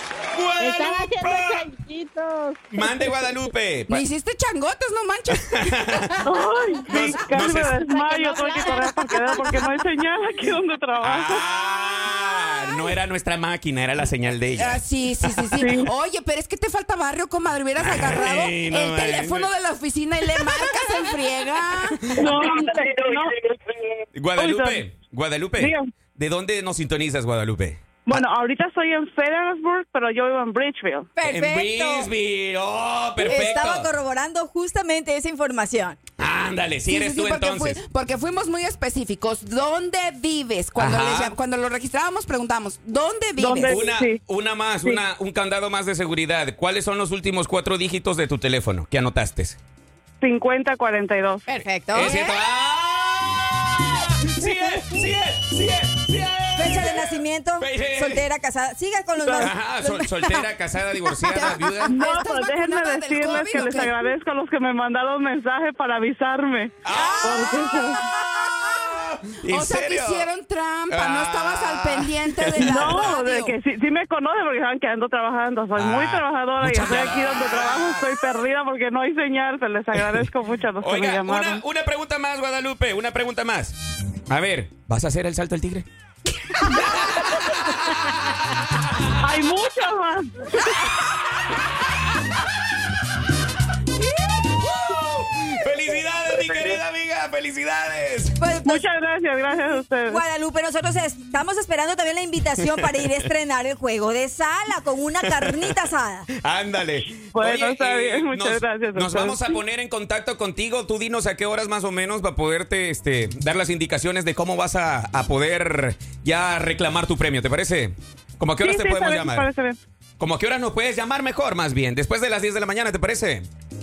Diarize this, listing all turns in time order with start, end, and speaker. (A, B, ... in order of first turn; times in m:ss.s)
0:00.3-0:01.7 A
0:00.6-0:03.4 B
0:02.7-0:04.0 A
0:03.9-0:06.3 C
0:05.5-0:06.2 A
0:06.3-0:11.5 D
0:06.8-0:07.2 B
0:06.9-0:07.9 A
0:07.7-0:09.7 B
0:11.0-0:15.5 A
0:14.6-0:22.7 C
0:15.6-0:15.9 D
0:17.8-0:19.5 A
0:20.4-0:20.7 A
0:22.2-0:23.4 D
0:24.2-0:28.2 A
0:24.4-0:24.8 D
0:25.6-0:25.9 D
0:28.1-0:31.1 D
0:31.2-0:32.1 E
0:31.2-0:33.9 A
0:33.2-0:36.0 E
0:36.2-0:37.8 A
0:36.9-0:43.9 C
0:40.8-0:41.4 A
0:43.4-0:44.2 D
0:43.6-0:49.6 A
0:50.2-0:51.5 D
0:51.5-0:52.4 E
0:51.9-0:58.3 A
0:56.6-1:00.4 E
0:59.2-0:59.5 D
0:59.4-1:02.0 A
1:01.2-1:04.0 C
1:01.9-1:08.0 D
1:06.8-1:10.3 A
1:09.5-1:13.6 C
1:10.9-1:12.9 A
1:12.6-1:21.6 D
1:15.8-1:18.1 A
1:19.9-1:20.3 A
1:20.8-1:23.8 A
1:24.3-1:25.9 A
1:26.6-1:28.4 A
1:29.2-1:30.5 D
1:31.0-1:32.0 A
1:34.4-1:38.4 A
1:38.4-1:38.8 E
1:38.6-1:40.2 D
1:39.6-1:46.3 E
1:45.3-1:45.8 A
1:46.4-1:59.5 A
1:47.3-1:49.5 D
1:58.6-1:59.8 D
2:00.2-2:03.5 A